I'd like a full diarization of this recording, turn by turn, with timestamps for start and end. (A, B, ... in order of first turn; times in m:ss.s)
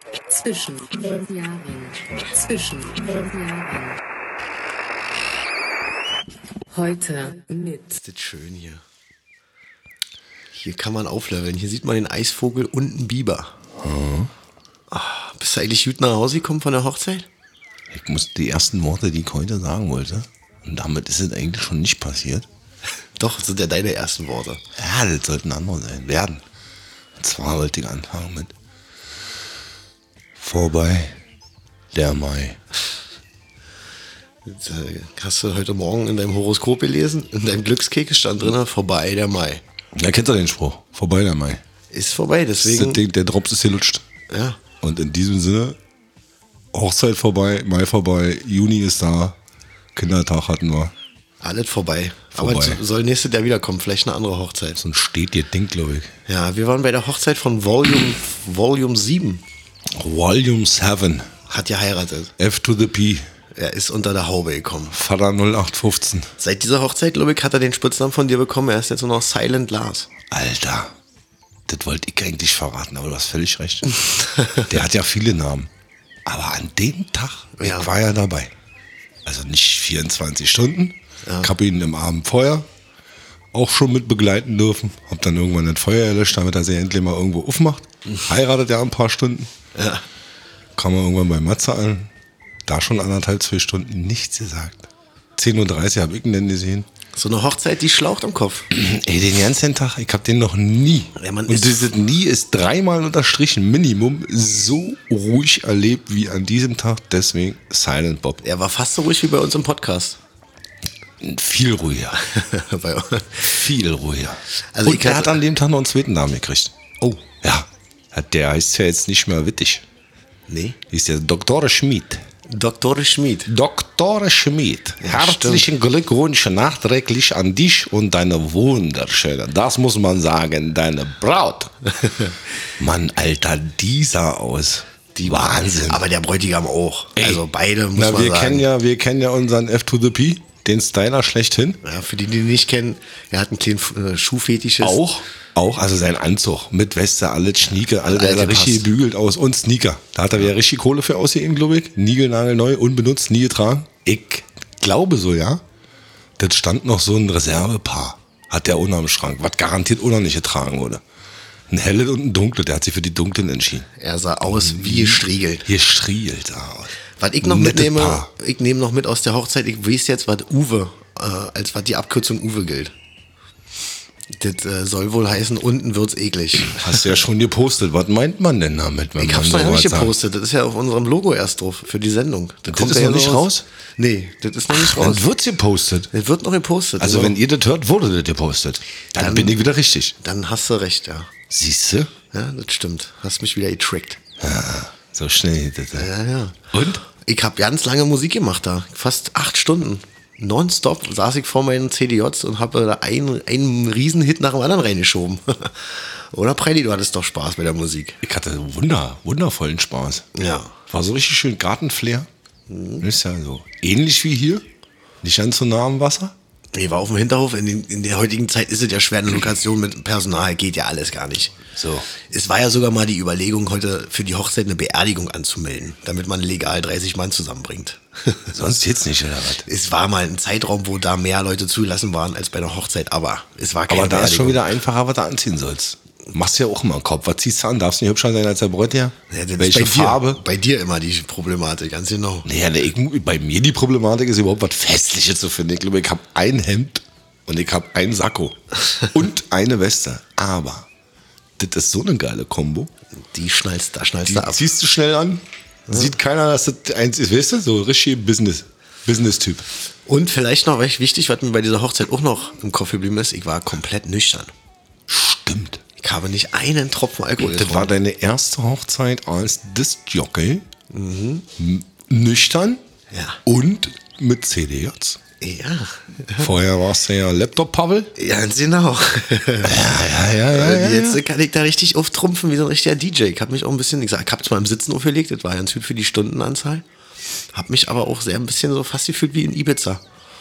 0:00.3-0:04.0 A
0:06.7-0:08.0 A
0:08.0-0:08.8 B
0:10.5-0:13.5 B
0:13.8-0:14.3 C
0:14.9-0:17.3 B
0:17.9-0:22.4 C
0:23.2-0:24.6 B
0:24.8-0:26.4 C
0:27.2-0:28.5 C
0:30.4-0:31.2 C
0:31.9-0:32.6 C
0:34.4-0:39.6 B
0:40.0-0:41.6 C
0:41.9-0:43.0 B
0:42.6-0:44.0 C
0:44.3-0:44.6 B
0:44.8-0:45.8 C
0:46.7-0:49.4 C
0:50.0-0:50.9 C
0:51.4-0:54.8 B
0:52.3-0:52.8 C
0:54.8-0:56.1 C
0:56.3-0:59.4 B
0:59.9-1:01.3 C
1:01.5-1:02.3 B
1:02.4-1:03.3 C
1:03.5-1:05.0 B
1:04.9-1:06.3 C
1:06.4-1:10.1 B
1:10.3-1:11.0 C
1:11.7-1:14.0 C
1:14.4-1:14.7 B
1:14.7-1:15.7 C
1:16.3-1:18.5 C
1:17.6-1:17.9 B
1:19.2-1:22.7 C
1:21.2-1:21.5 B
1:23.5-1:29.5 C
1:29.8-1:30.0 B
1:30.8-1:32.1 C
1:32.7-1:36.9 C
1:37.1-1:38.7 B
1:38.7-1:48.4 C
1:41.2-1:41.9 B
1:48.4-1:50.2 B
1:51.2-1:52.2 C
1:52.2-1:53.6 B
1:53.4-1:56.8 C
1:54.7-1:55.4 B
1:57.4-1:59.8 C
2:00.5-2:00.8 B
2:00.9-2:02.2 C
2:02.5-2:03.5 B
2:03.5-2:11.9 C
2:05.0-2:05.7 B
2:12.8-2:16.0 C
2:15.2-2:18.7 B
2:17.2-2:17.4 C
2:17.9-2:21.8 C
2:21.8-2:25.0 B
2:24.8-2:35.6 C
2:28.0-2:28.9 B
2:36.4-2:41.0 C
2:41.7-2:43.9 C
2:44.0-2:45.7 B
2:44.5-2:48.3 C
2:47.2-2:52.9 B
2:54.3-2:57.2 B
2:56.8-3:00.1 C
2:59.2-3:05.2 B
3:02.7-3:03.6 C
3:04.7-3:06.1 C
3:06.1-3:07.4 B
3:07.0-3:10.2 C
3:09.2-3:09.6 B
3:10.2-3:11.3 B
3:11.5-3:12.1 C
3:12.3-3:14.2 B
3:14.4-3:16.1 C
3:15.9-3:28.2 B
3:16.7-3:17.0 C
3:28.2-3:30.3 C
3:30.3-3:30.8 B
3:30.9-3:32.3 C
3:32.7-3:33.0 B
3:33.0-3:34.6 C
3:35.2-3:36.3 C
3:36.7-3:41.6 B
3:41.6-3:42.1 C
3:42.2-3:48.5 B
3:48.5-3:49.7 C
3:49.7-3:54.7 B
3:53.9-4:00.4 C
3:59.3-4:02.5 B
4:02.4-4:10.9 C
4:11.6-4:12.9 C
4:13.3-4:14.7 B
4:14.3-4:19.6 C
4:20.1-4:24.5 B
4:25.1-4:25.8 C
4:26.0-4:27.9 B
4:27.4-4:30.6 C
4:30.9-4:31.5 B
4:31.6-4:32.8 C
4:33.1-4:33.4 B
4:33.4-4:35.2 C
4:35.4-4:36.5 B
4:36.4-4:38.1 C
4:38.2-4:46.8 B
4:39.6-4:41.2 C
4:47.5-4:50.0 B